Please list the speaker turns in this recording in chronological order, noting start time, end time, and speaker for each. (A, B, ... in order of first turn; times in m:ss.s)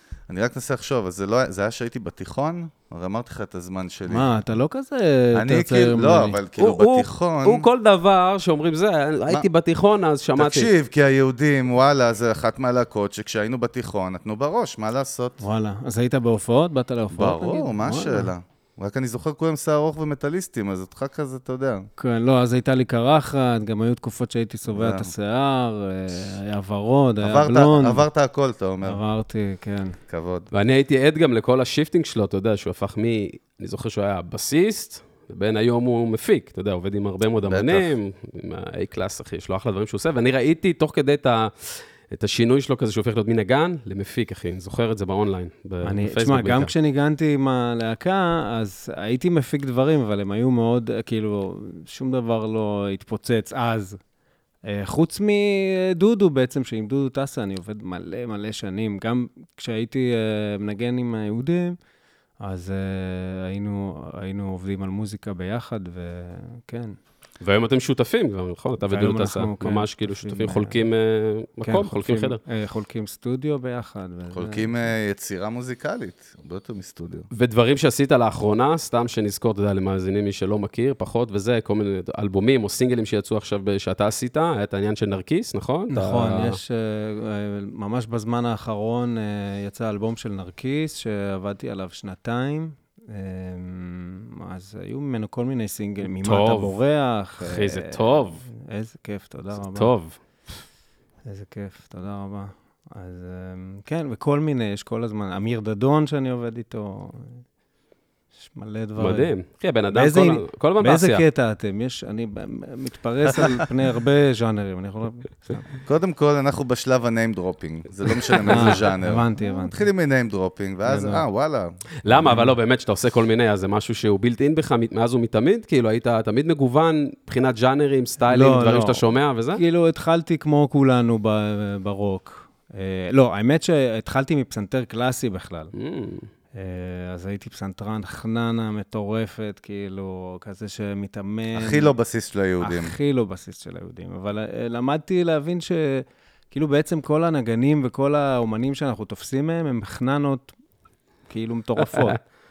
0:00.3-0:04.3 A
0:04.1-0:06.4 B
0:05.3-0:07.7 A
0:06.6-0:10.7 C
0:10.4-0:15.4 A
0:15.4-0:18.3 B
0:17.1-0:21.9 A
0:22.0-0:28.0 B
0:24.7-0:25.1 A
0:27.2-0:29.0 A
0:28.8-0:30.0 B
0:30.1-0:30.5 A
0:30.5-0:46.7 C
0:37.5-0:37.9 A
0:45.8-0:54.0 B
0:54.6-1:01.8 B
1:02.4-1:07.0 B
1:07.4-1:12.4 C
1:08.8-1:10.8 B
1:11.6-1:14.9 B
1:14.3-1:17.3 A
1:17.3-1:26.6 C
1:25.9-1:39.9 B
1:36.2-1:36.8 C
1:37.4-1:38.4 C
1:39.6-1:40.2 C
1:41.2-1:47.4 B
1:48.4-1:49.3 B
1:49.0-1:51.2 C
1:49.9-1:55.7 B
1:55.9-2:02.4 A
1:58.5-1:59.8 B
2:00.9-2:01.2 B
2:02.0-2:09.6 C
2:02.3-2:02.5 B
2:08.3-2:15.7 B
2:15.7-2:16.3 C
2:16.6-2:22.0 B
2:21.5-2:22.9 A
2:22.6-2:30.5 B
2:31.3-2:32.2 B